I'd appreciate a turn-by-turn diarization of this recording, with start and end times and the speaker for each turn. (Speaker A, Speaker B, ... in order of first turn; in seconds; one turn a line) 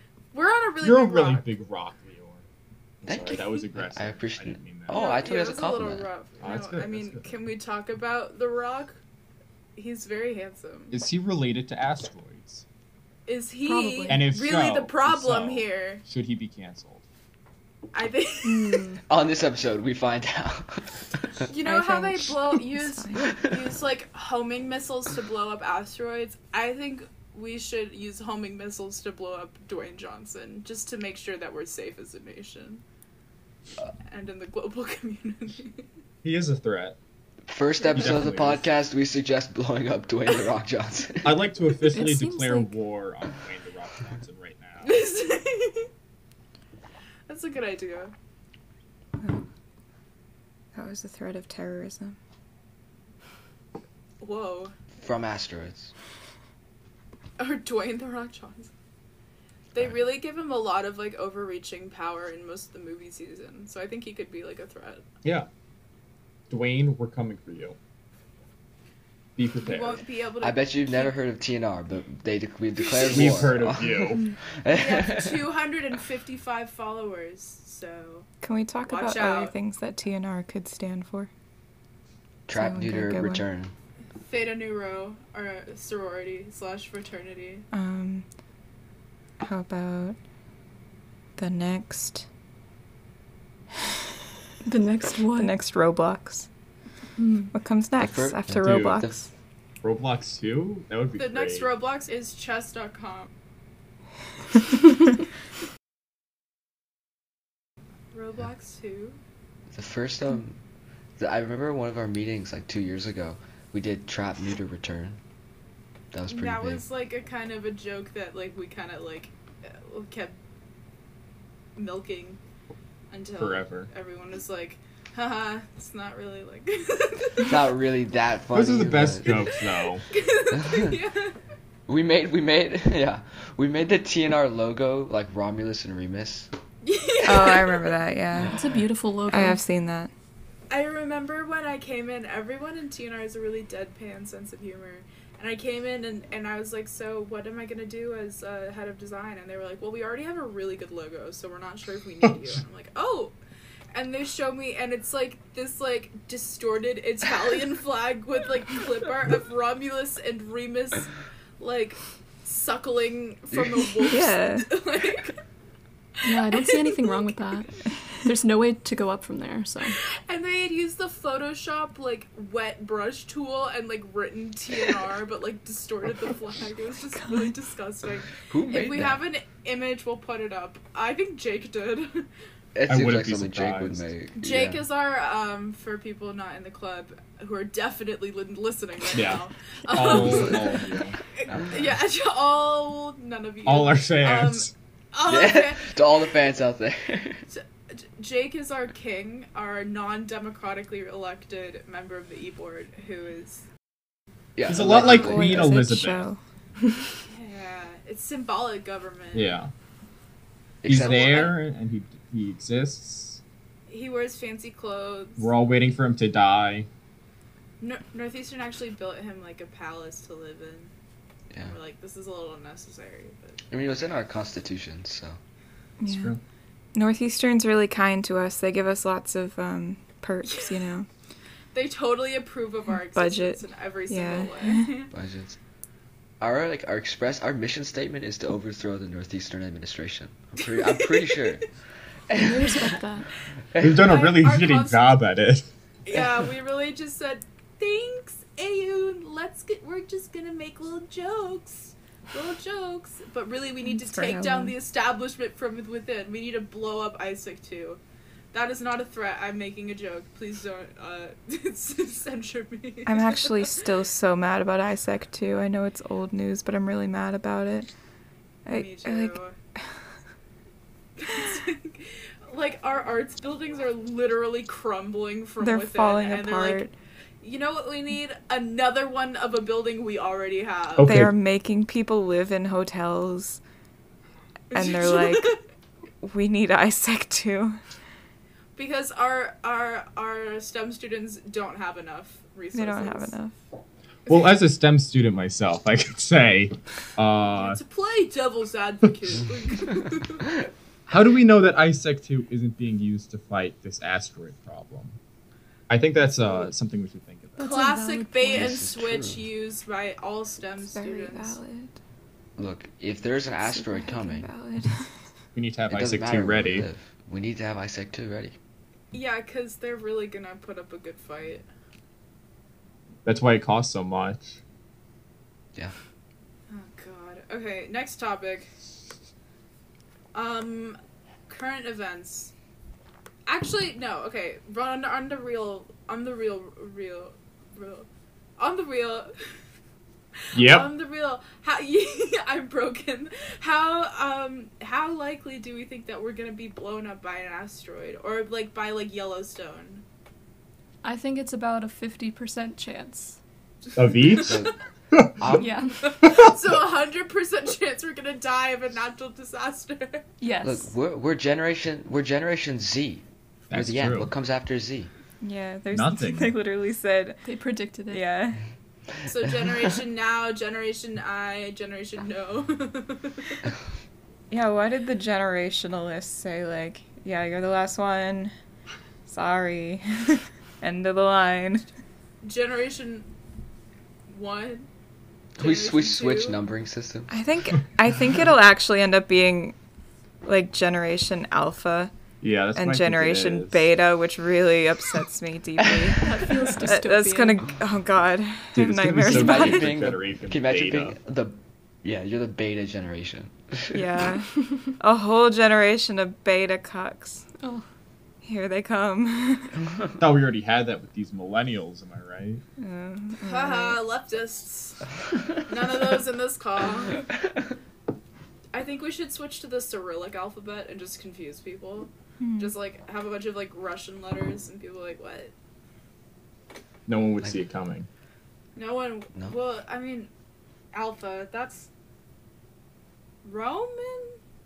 Speaker A: 0.3-1.5
Speaker B: 0.8-2.5
Speaker B: 3.0-5.0
Speaker C: 3.0-6.1
Speaker A: 4.9-9.0
Speaker B: 6.4-7.3
Speaker A: 9.8-11.0
Speaker B: 10.9-12.7
Speaker A: 13.3-16.0
Speaker D: 13.7-14.3
Speaker B: 14.1-17.0
Speaker A: 17.9-18.9
Speaker E: 18.5-19.0
Speaker C: 19.1-20.9
Speaker A: 21.5-32.8
Speaker E: 21.6-23.2
Speaker A: 34.1-35.9
Speaker B: 36.2-37.0
Speaker C: 37.5-41.5
Speaker B: 37.9-38.7
Speaker B: 41.2-45.0
Speaker D: 41.9-42.8
Speaker A: 44.8-45.9
Speaker A: 47.3-48.1
Speaker E: 50.7-52.2
Speaker A: 54.2-54.7
Speaker C: 55.0-55.9
Speaker A: 57.4-58.7
Speaker A: 59.7-65.0
Speaker B: 66.5-67.8
Speaker B: 69.4-70.0
Speaker A: 69.6-71.2
Speaker C: 70.4-75.5
Speaker B: 73.0-74.2
Speaker A: 74.7-78.3
Speaker E: 78.4-81.3
Speaker A: 78.9-79.5
Speaker C: 82.5-83.7
Speaker E: 82.5-83.4
Speaker A: 84.2-87.7
Speaker E: 87.7-88.3
Speaker E: 89.4-90.2
Speaker E: 91.4-92.3
Speaker D: 94.7-95.5
Speaker E: 95.3-96.5
Speaker D: 97.2-97.5
Speaker E: 97.5-99.3
Speaker C: 98.0-99.3
Speaker B: 98.6-99.0
Speaker B: 99.8-101.7
Speaker A: 101.2-103.3
Speaker A: 108.1-109.2
Speaker C: 109.7-110.6
Speaker C: 111.2-115.2
Speaker C: 116.1-116.8
Speaker A: 116.3-120.4
Speaker A: 121.8-122.4
Speaker A: 123.1-127.6
Speaker B: 123.4-123.9
Speaker C: 127.4-129.4
Speaker B: 128.5-130.0
Speaker A: 130.1-131.4
Speaker C: 130.5-131.0
Speaker C: 131.9-136.5
Speaker A: 136.8-138.0
Speaker E: 137.2-138.6
Speaker D: 138.5-139.6
Speaker E: 139.3-140.1
Speaker A: 140.7-153.3
Speaker A: 153.9-165.4
Speaker E: 164.0-164.8
Speaker A: 166.2-167.3
Speaker D: 166.2-170.0
Speaker A: 170.3-182.3
Speaker E: 177.2-177.5
Speaker C: 178.5-179.2
Speaker C: 182.8-184.9
Speaker B: 182.9-184.1
Speaker A: 184.3-190.9
Speaker B: 189.1-192.0
Speaker C: 190.0-190.4
Speaker A: 191.4-196.0
Speaker B: 193.7-194.7
Speaker C: 195.3-197.5
Speaker A: 197.5-203.7
Speaker C: 204.6-205.8
Speaker B: 204.7-206.3
Speaker E: 204.7-206.4
Speaker A: 207.3-209.6
Speaker B: 209.3-209.7
Speaker C: 210.8-211.5
Speaker B: 210.9-213.4
Speaker A: 210.9-211.5
Speaker A: 213.9-215.5
Speaker B: 215.4-216.9
Speaker A: 217.8-220.9
Speaker C: 221.5-221.8
Speaker A: 221.7-223.6
Speaker C: 223.7-225.4
Speaker E: 226.0-226.3
Speaker B: 226.0-226.4
Speaker E: 226.9-231.1
Speaker A: 230.5-230.7
Speaker A: 231.7-235.1
Speaker E: 233.2-234.9
Speaker C: 235.1-235.6
Speaker C: 236.4-241.8
Speaker A: 240.6-241.5
Speaker C: 242.3-243.0
Speaker D: 242.3-243.3
Speaker C: 243.7-244.1
Speaker B: 243.8-245.7
Speaker A: 244.0-245.2
Speaker A: 246.1-258.0
Speaker E: 253.9-254.8
Speaker A: 258.5-263.8
Speaker E: 263.1-267.9
Speaker E: 268.7-269.4
Speaker A: 268.7-269.6
Speaker A: 271.2-276.8
Speaker E: 275.6-276.9
Speaker A: 277.4-281.3
Speaker B: 281.0-281.4
Speaker E: 281.0-283.6
Speaker A: 284.7-285.6
Speaker E: 284.7-285.6
Speaker E: 286.2-287.8
Speaker A: 288.8-293.4
Speaker E: 292.7-293.6
Speaker B: 294.3-297.8
Speaker A: 294.3-294.6
Speaker A: 297.5-300.5
Speaker B: 301.1-305.2
Speaker B: 305.9-307.7
Speaker D: 307.6-308.8
Speaker A: 307.6-311.6
Speaker C: 308.5-309.4
Speaker E: 310.9-312.0
Speaker C: 312.6-314.5
Speaker E: 313.6-315.1
Speaker B: 315.5-316.9
Speaker C: 315.9-318.6
Speaker A: 319.1-321.6
Speaker B: 323.2-324.6
Speaker A: 326.7-328.7
Speaker A: 330.3-332.5
Speaker A: 333.5-339.3
Speaker A: 340.4-350.0
Speaker B: 340.6-340.9
Speaker D: 351.0-353.4
Speaker B: 353.9-355.6
Speaker A: 354.4-354.7
Speaker C: 354.5-354.7
Speaker C: 355.4-355.7
Speaker D: 355.6-356.1
Speaker A: 356.0-360.2
Speaker B: 356.2-356.8
Speaker D: 360.4-360.9
Speaker C: 360.6-365.1
Speaker B: 363.7-364.3
Speaker E: 365.4-367.4
Speaker B: 365.9-366.6
Speaker D: 367.4-368.3
Speaker E: 368.1-368.6
Speaker A: 369.3-373.6
Speaker E: 374.5-378.5
Speaker E: 379.3-381.9
Speaker A: 382.4-383.3
Speaker A: 384.3-384.9
Speaker C: 385.6-387.3
Speaker A: 385.6-386.6
Speaker E: 387.3-389.8
Speaker E: 390.4-392.1
Speaker B: 392.4-393.9
Speaker E: 392.8-399.9
Speaker D: 396.2-397.7
Speaker B: 398.8-401.2
Speaker C: 399.2-404.0
Speaker E: 403.9-407.4
Speaker D: 407.6-407.9
Speaker E: 408.4-409.8
Speaker B: 410.2-412.6
Speaker E: 412.8-414.0
Speaker A: 413.4-415.0
Speaker A: 415.6-417.3
Speaker A: 418.7-425.5
Speaker E: 422.4-422.7
Speaker B: 427.1-428.1
Speaker A: 428.8-430.3
Speaker A: 430.9-431.9
Speaker A: 433.4-434.4